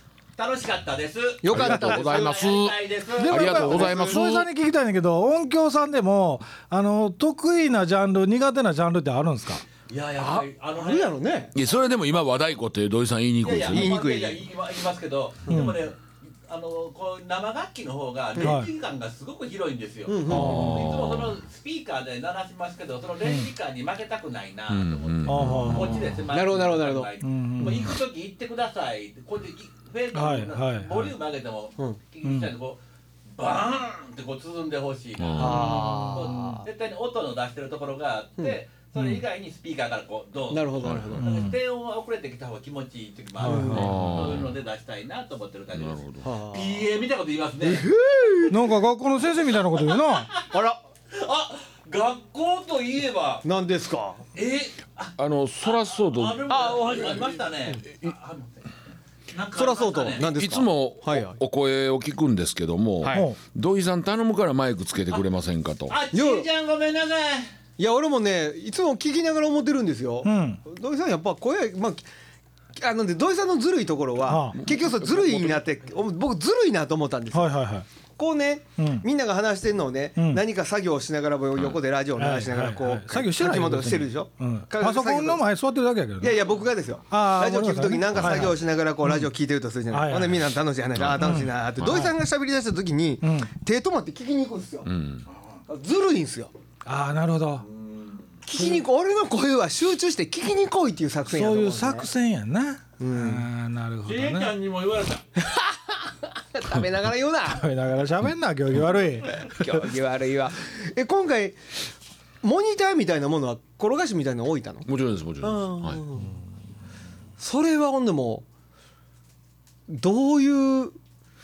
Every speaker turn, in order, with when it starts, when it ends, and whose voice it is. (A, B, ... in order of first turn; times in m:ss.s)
0:00.4-0:03.6 A
0:01.4-0:02.4 B
0:01.5-0:04.5 C
0:03.2-0:09.6 D
0:03.5-0:04.2 B
0:09.9-0:11.2 A
0:10.2-0:11.5 B
0:11.5-0:14.0 C
0:13.4-0:47.9 A
0:13.6-0:14.4 B
0:15.5-0:15.7 B
0:15.5-0:15.8 D
0:18.3-0:18.6 B
0:18.4-0:18.7 D
0:20.0-0:21.0 B
0:20.3-0:20.8 D
0:20.3-0:21.3 C
0:24.7-0:25.7 C
0:25.2-0:26.1 D
0:25.3-0:27.1 B
0:27.2-0:27.9 D
0:30.1-0:31.1 D
0:32.2-0:32.5 D
0:35.2-0:35.8 C
0:35.4-0:36.7 B
0:35.5-0:36.6 D
0:39.0-0:39.2 D
0:40.5-0:41.2 B
0:40.8-0:41.2 C
0:41.2-0:41.6 D
0:43.4-0:43.9 D
0:43.4-0:44.0 B
0:43.7-0:44.5 C
0:45.7-0:46.3 C
0:46.2-0:46.8 B
0:47.6-0:48.8 B
0:48.5-0:50.3 D
0:49.8-0:50.5 A
0:50.5-0:50.8 B
0:51.1-0:53.4 A
0:53.4-0:54.2 B
0:54.3-0:58.7 A
0:55.2-0:56.7 C
0:56.5-0:57.8 B
0:59.3-1:00.3 A
0:59.5-1:01.4 B
1:00.3-1:06.0 C
1:03.0-1:03.3 B
1:03.1-1:03.4 D
1:05.9-1:07.5 A
1:06.1-1:06.5 B
1:07.8-1:12.0 B
1:10.2-1:10.6 D
1:12.8-1:17.6 B
1:14.2-1:14.6 D
1:14.6-1:15.7 C
1:17.3-1:17.8 D
1:18.2-1:25.4 B
1:18.8-1:19.0 D
1:20.2-1:20.4 D
1:22.2-1:26.4 D
1:26.2-1:34.9 B
1:27.1-1:29.3 D
1:28.2-1:28.5 C
1:29.9-1:30.5 D
1:30.9-1:32.1 C
1:31.1-1:32.1 D
1:33.2-1:33.5 D
1:34.8-1:35.2 C
1:35.7-1:36.5 B
1:36.8-1:37.6 D
1:37.6-1:38.4 A
1:38.4-1:42.1 B
1:41.3-1:44.5 D
1:43.0-1:43.5 B
1:44.0-1:45.2 A
1:45.4-1:47.7 B
1:47.4-1:49.9 D
1:49.4-1:51.6 B
1:52.4-1:54.9 B
1:54.8-1:56.0 C
1:55.4-1:56.4 B
1:57.4-1:58.4 B
1:59.9-2:01.0 B